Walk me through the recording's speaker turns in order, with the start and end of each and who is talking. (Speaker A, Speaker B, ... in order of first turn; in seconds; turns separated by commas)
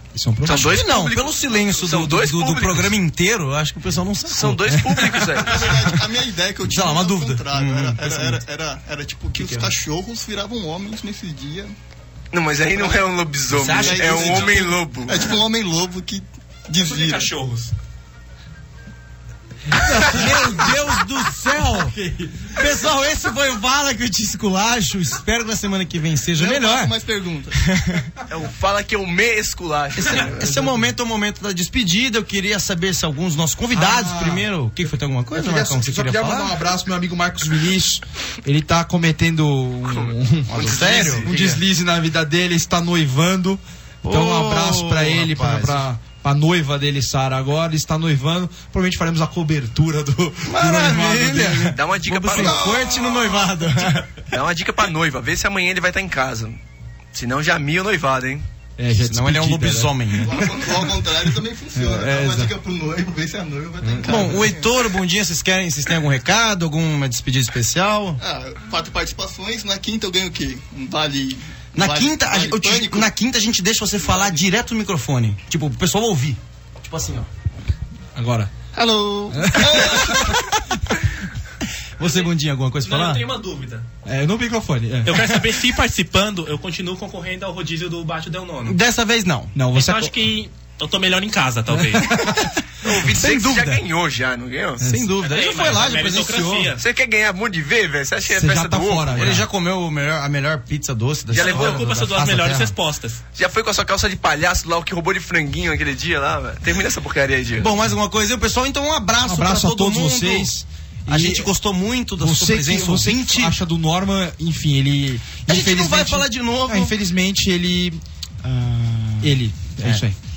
Speaker A: 0.1-0.8, Speaker B: 0.4-2.9, Speaker C: 0.5-4.6, Speaker B: 4.3-5.7, Speaker A: 4.4-5.8, Speaker D: 5.3-11.7, Speaker C: 6.7-8.4, Speaker C: 9.3-9.7, Speaker B: 12.3-15.3, Speaker C: 13.5-14.8, Speaker D: 15.1-17.3, Speaker E: 16.8-17.7, Speaker A: 19.7-20.9, Speaker C: 19.7-21.9, Speaker A: 21.5-22.7, Speaker C: 22.5-26.9, Speaker D: 26.3-27.6, Speaker C: 27.5-28.0, Speaker B: 28.3-30.8, Speaker C: 29.9-36.5, Speaker A: 33.7-52.8, Speaker B: 39.9-41.6, Speaker C: 40.5-41.3, Speaker C: 44.0-45.8, Speaker C: 50.4-51.8, Speaker B: 51.7-53.1, Speaker C: 52.3-54.1, Speaker D: 52.7-53.3, Speaker B: 54.3-56.6, Speaker B: 57.1-58.4, Speaker A: 58.8-60.5, Speaker C: 59.1-60.4, Speaker D: 60.2-64.9, Speaker A: 61.7-62.5, Speaker A: 63.8-64.5, Speaker C: 64.0-68.2, Speaker D: 68.2-73.1, Speaker C: 71.7-77.3, Speaker D: 74.0-74.4, Speaker A: 78.1-78.5, Speaker D: 78.7-80.4, Speaker A: 79.3-80.5, Speaker C: 82.0-83.2, Speaker E: 82.0-82.3, Speaker E: 82.8-83.9, Speaker A: 84.0-85.4, Speaker E: 85.0-88.8, Speaker C: 88.7-89.5, Speaker A: 89.5-90.2, Speaker E: 89.7-92.1, Speaker A: 91.7-92.5, Speaker C: 92.2-93.8, Speaker B: 92.8-94.8, Speaker A: 94.8-95.1, Speaker C: 94.8-96.7, Speaker E: 95.2-96.8, Speaker B: 96.8-99.4, Speaker A: 98.3-99.5, Speaker C: 99.1-102.7, Speaker B: 101.3-101.9, Speaker E: 101.3-103.2, Speaker B: 103.3-107.8, Speaker C: 107.6-110.5, Speaker A: 109.2-111.5, Speaker C: 111.1-113.5, Speaker A: 112.2-118.0, Speaker C: 115.5-116.9, Speaker C: 118.4-120.0, Speaker A: 119.2-120.2